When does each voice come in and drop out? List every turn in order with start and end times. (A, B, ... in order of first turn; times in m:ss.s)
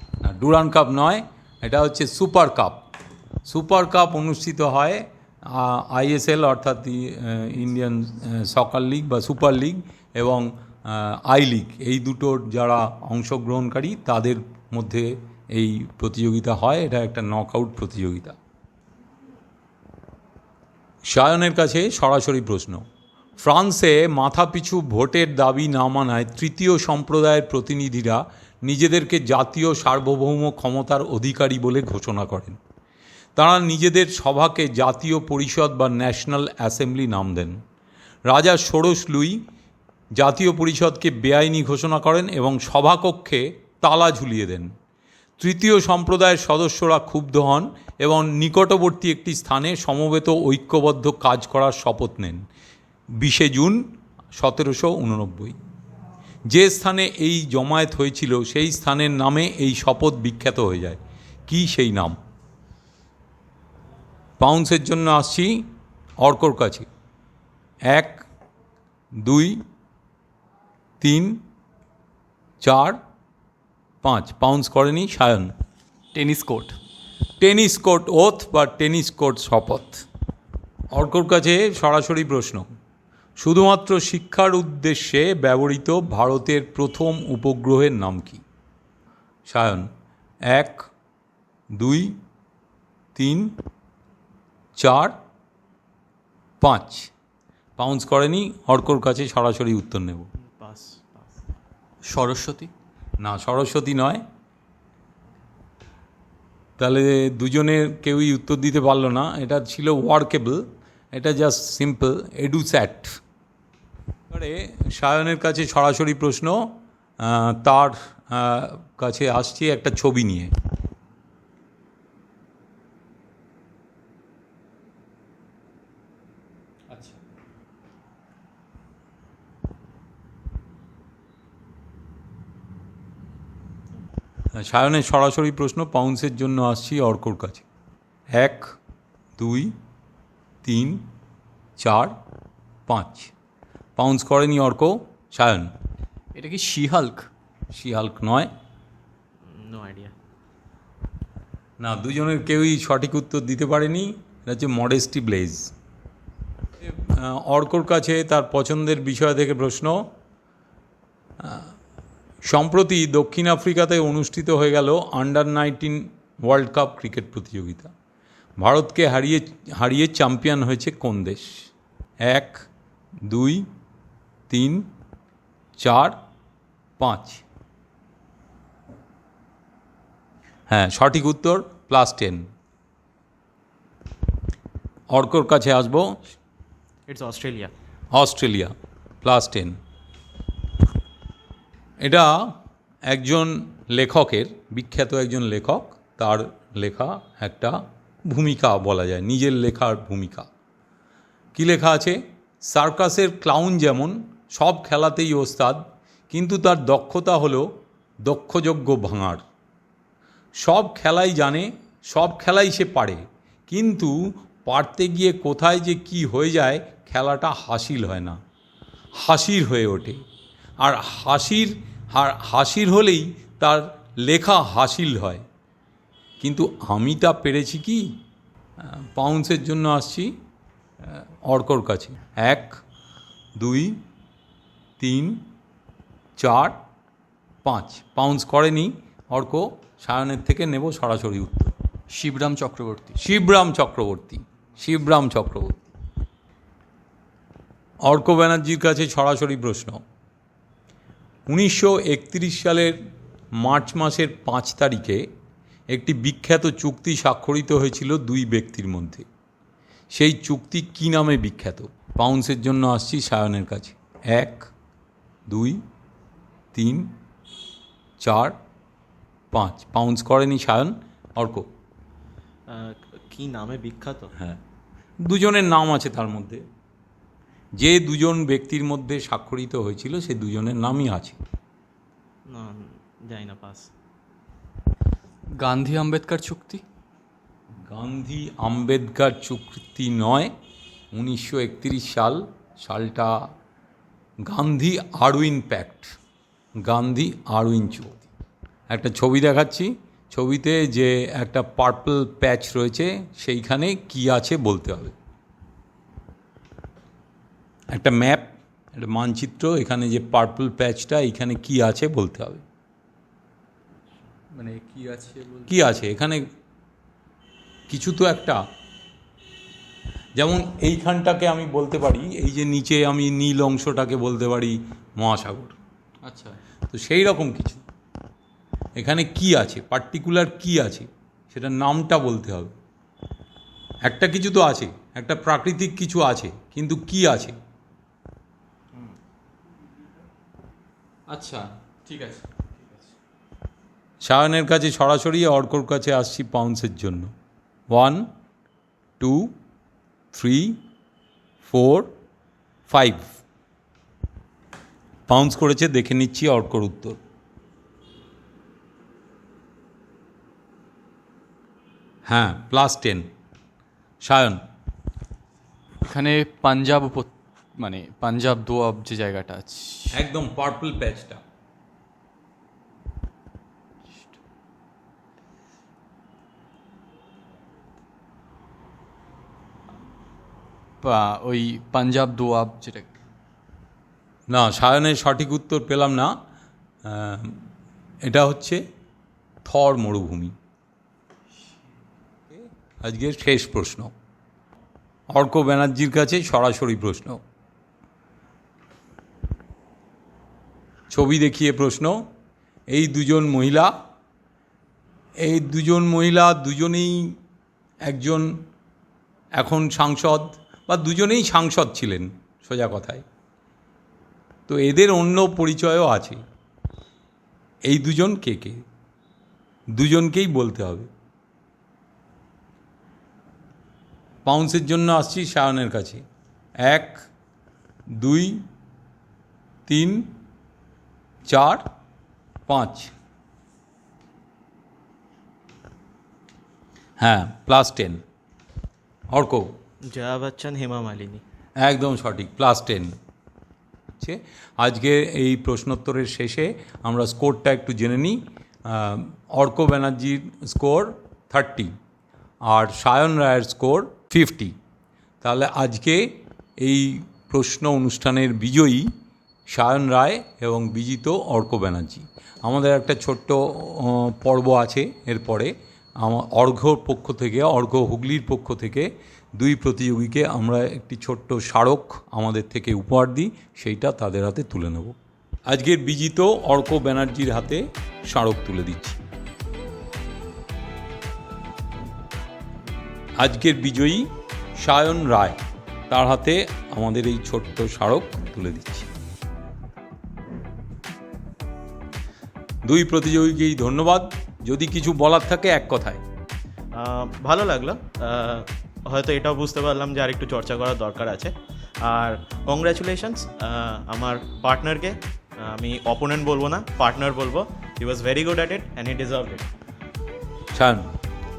0:00.2-0:02.9 A
0:03.4-0:18.4 A
0:21.1-0:22.8 A
0:23.4-0:32.6 A
0:33.4-0:37.6 A
0:38.3-0:39.4 A
0:40.2-0:44.7 A
0:45.4-0:52.4 A
0:53.2-0:53.8 A
0:54.4-0:55.6 A
0:56.5-1:02.2 A
1:04.4-1:05.7 A
1:06.2-1:06.9 A
1:07.9-1:08.2 A
1:09.2-1:09.6 A
1:11.0-1:11.4 A
1:12.6-1:13.0 A
1:14.0-1:15.5 A
1:16.1-1:16.8 B
1:17.4-1:20.0 A
1:20.9-1:22.7 A
1:23.4-1:28.4 A
1:29.5-1:29.9 A
1:30.5-1:30.9 A
1:31.8-1:32.2 A
1:33.1-1:33.6 A
1:34.8-1:35.1 A
1:36.6-1:37.1 A
1:37.8-1:40.3 A
1:40.4-1:41.3 C
1:42.0-1:42.7 B
1:43.2-1:44.2 A
1:46.8-1:53.2 A
1:54.3-2:00.5 A
2:06.9-2:07.2 B
2:14.5-2:17.6 A
2:18.3-2:18.7 A
2:19.4-2:19.7 A
2:20.6-2:21.0 A
2:21.8-2:22.1 A
2:22.9-2:23.3 A
2:24.0-2:25.7 A
2:26.3-2:27.3 B
2:27.7-2:28.5 A
2:29.5-2:30.1 C
2:31.8-2:35.7 A
2:36.8-2:40.1 A
2:41.4-2:41.7 A
2:42.4-2:47.9 A
2:48.6-2:51.7 A
2:52.2-2:52.7 A
2:53.3-2:53.7 A
2:54.5-2:54.9 A
2:55.8-2:56.2 A
2:57.0-2:57.4 A
3:00.7-3:02.5 A
3:05.1-3:06.2 A
3:07.1-3:07.7 C
3:08.1-3:09.8 A
3:12.0-3:12.5 A
3:13.1-3:20.5 A
3:21.5-3:27.7 A
3:28.2-3:29.4 A
3:30.6-3:38.4 A
3:39.2-3:40.2 A
3:40.8-3:45.4 A
3:46.4-3:48.2 A
3:48.8-3:50.3 A
3:51.0-3:52.8 A
3:53.6-3:54.0 A
3:55.0-3:55.4 A
3:56.4-3:56.8 A
3:57.6-4:01.7 A
4:02.1-4:03.2 B
4:03.2-4:05.9 A
4:08.0-4:10.0 A
4:11.5-4:13.0 A
4:13.6-4:15.3 A
4:15.9-4:19.2 A
4:20.1-4:24.7 A
4:25.5-4:25.8 A
4:26.7-4:27.1 A
4:28.2-4:28.6 A
4:29.5-4:31.7 A
4:32.7-4:34.3 C
4:35.2-4:36.6 A
4:37.8-4:41.4 A
4:42.5-4:43.9 C
4:45.6-4:46.8 B
4:47.8-4:50.5 A
4:51.1-4:53.5 A
4:54.4-4:56.2 A
4:56.8-4:58.3 A
4:58.9-5:05.1 A
5:07.9-5:12.6 A
5:14.5-5:15.7 B
5:15.7-5:16.5 A
5:17.9-5:18.6 A
5:20.4-5:25.8 A
5:26.2-5:26.6 B
5:26.9-5:27.8 A
5:29.0-5:32.7 A
5:34.0-5:37.6 A
5:41.3-5:42.7 B
5:44.2-5:47.3 A
5:47.9-5:48.2 A
5:49.2-5:49.5 A
5:50.3-5:50.8 A
5:51.6-5:52.1 A
5:52.9-5:53.3 A
5:55.3-5:57.2 A
6:02.2-6:03.3 A
6:04.2-6:04.6 A
6:06.0-6:10.1 B
6:10.1-6:11.4 A
6:21.0-6:23.2 B
6:24.5-6:26.3 A
6:27.0-6:27.6 A
6:28.2-6:28.8 A
6:29.6-6:30.5 A
6:32.5-6:34.1 A
6:35.3-6:37.4 A
6:41.1-6:42.3 A
6:42.9-6:43.9 A
6:45.4-6:47.4 A
6:48.0-6:48.6 A
6:49.6-6:53.2 A
6:54.7-6:56.4 A
6:57.8-6:58.8 A
6:59.9-7:01.1 A
7:04.4-7:06.2 A
7:06.8-7:07.3 A
7:08.1-7:08.6 A
7:09.9-7:10.3 A
7:11.5-7:11.8 A
7:12.7-7:13.1 A
7:17.2-7:18.2 A
7:19.3-7:19.7 A
7:20.1-7:21.4 C
7:21.8-7:23.1 A
7:24.2-7:31.9 A
7:32.6-7:34.7 A
7:35.4-7:39.1 A
7:39.7-7:55.2 A
7:55.7-7:59.2 A
8:03.4-8:05.6 A
8:06.1-8:09.1 A
8:12.8-8:16.2 A
8:16.9-8:29.6 C
8:30.7-8:31.1 A